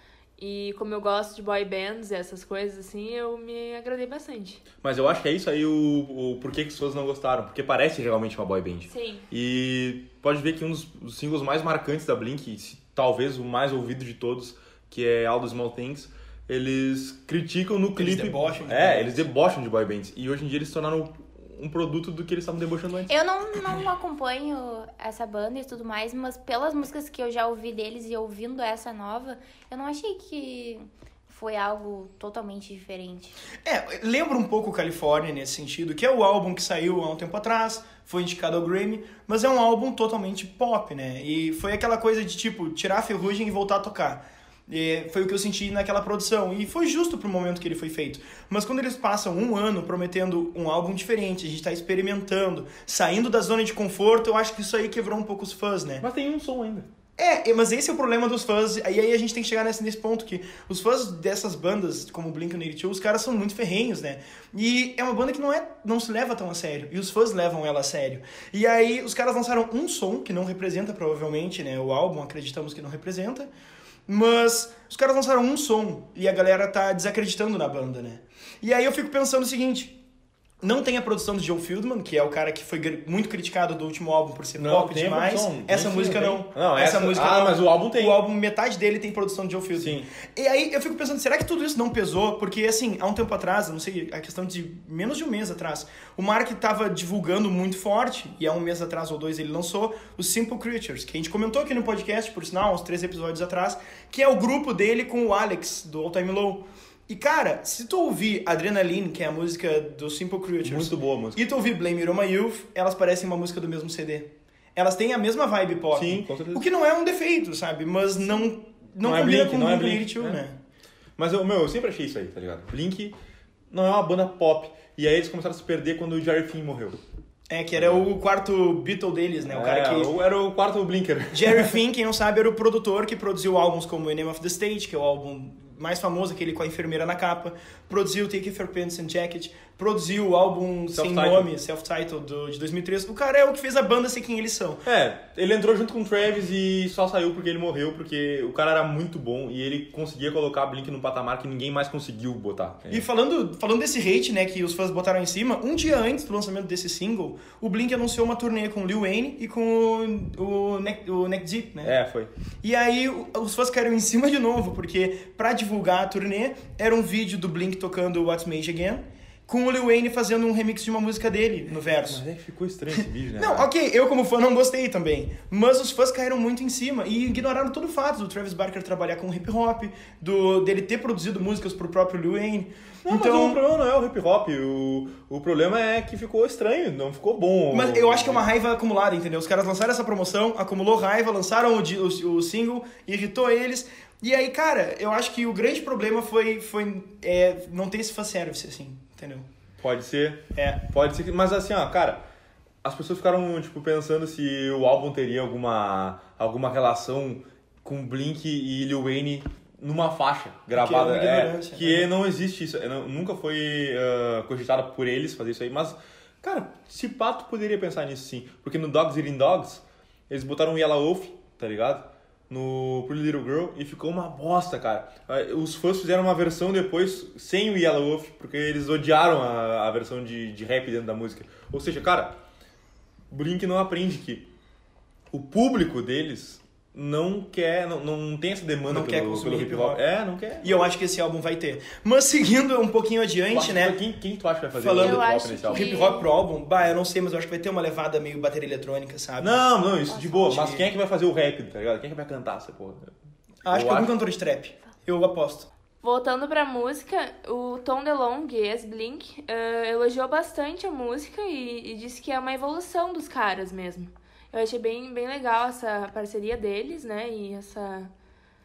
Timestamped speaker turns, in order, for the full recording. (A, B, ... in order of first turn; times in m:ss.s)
0:00.4-0:04.6 A
0:04.8-0:23.1 B
0:08.9-0:09.2 A
0:18.0-0:19.2 C
0:23.1-0:33.3 D
0:33.6-0:56.0 C
0:56.0-0:56.9 B
0:57.2-1:13.5 C
1:14.1-1:20.0 C
1:20.6-2:00.6 C
1:24.6-1:28.2 B
1:29.8-1:30.1 B
1:50.6-1:51.4 B
1:55.9-1:56.6 B
1:59.0-2:00.4 B
2:01.2-2:03.1 B
2:03.7-2:07.0 B
2:07.5-2:10.1 C
2:07.8-2:08.0 B
2:09.5-2:11.7 B
2:11.3-2:24.8 C
2:20.9-2:21.5 B
2:24.8-2:33.0 B
2:32.9-2:41.9 C
2:41.8-2:42.3 B
2:42.6-2:52.2 C
2:52.0-2:53.7 B
2:53.4-3:03.6 C
3:03.0-3:08.4 B
3:07.7-3:19.4 C
3:19.8-3:22.2 B
3:20.5-3:20.8 C
3:22.8-3:52.4 B
3:30.7-3:32.1 C
3:53.3-3:54.5 B
3:55.3-4:00.8 B
3:58.9-4:00.0 C
4:00.6-4:04.0 C
4:03.5-4:06.0 B
4:04.8-4:10.9 C
4:05.0-4:06.3 A
4:09.4-4:13.1 B
4:13.6-4:15.7 C
4:13.7-4:14.2 B
4:16.0-4:28.1 A